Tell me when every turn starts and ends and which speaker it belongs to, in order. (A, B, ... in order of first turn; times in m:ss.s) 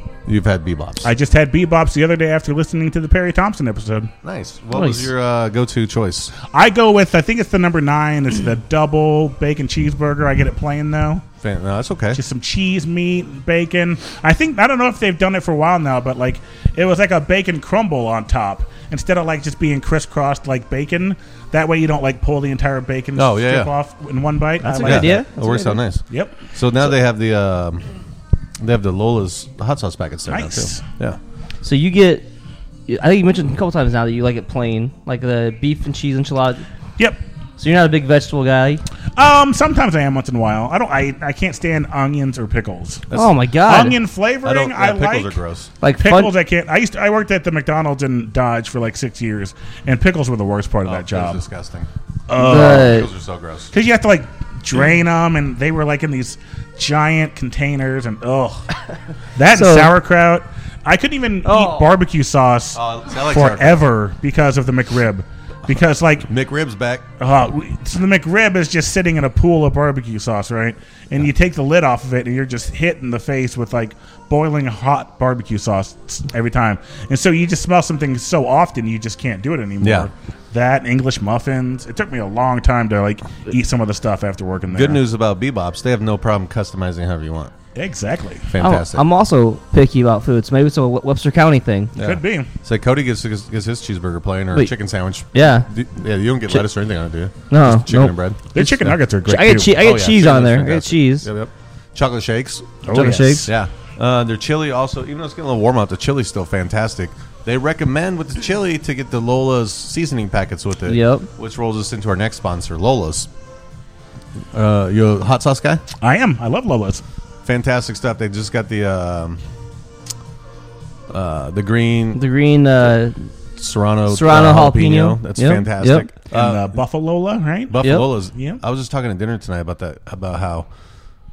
0:00.3-0:01.1 A
0:01.0-0:04.1 B
0:04.2-0:06.3 A
0:04.7-0:05.1 C
0:06.5-0:11.2 B
0:11.4-0:12.2 A
0:12.1-0:25.2 B
0:23.1-0:23.7 A
0:24.6-0:25.8 C
0:24.8-0:27.8 A
0:26.1-0:26.4 B
0:28.6-0:31.2 A
0:30.3-0:30.8 B
0:31.6-0:32.3 C
0:32.9-0:36.7 C
0:37.6-0:38.8 C
0:39.2-0:43.1 B
0:43.1-0:44.0 C
0:43.6-0:45.4 B
0:44.4-0:45.7 A
0:45.8-0:46.3 C
0:46.0-0:51.4 B
0:50.8-0:51.9 A
0:52.3-0:53.0 B
0:52.4-0:53.1 C
0:52.5-0:53.7 A
0:53.7-0:58.7 B
0:59.4-1:06.3 B
0:59.5-0:59.9 C
1:01.4-1:02.0 C
1:02.8-1:03.9 A
1:06.3-1:07.1 A
1:07.2-1:25.0 B
1:19.8-1:20.1 A
1:24.7-1:27.5 A
1:27.8-1:28.5 B
1:28.5-1:29.1 A
1:28.6-1:32.0 C
1:32.0-1:32.5 B
1:32.0-1:39.0 A
1:35.3-1:35.7 C
1:37.5-1:41.3 C
1:38.5-1:39.8 B
1:39.7-1:53.3 A
1:42.8-1:43.5 B
1:42.9-1:43.5 C
1:50.9-1:51.3 C
1:54.5-1:55.8 A
1:56.0-1:57.0 B
1:57.4-1:59.4 A
2:01.1-2:02.2 A
2:02.1-2:03.3 C
2:03.6-2:06.8 A
2:04.1-2:06.1 C
2:06.3-2:08.6 B
2:07.7-2:10.7 A
2:07.8-2:08.1 C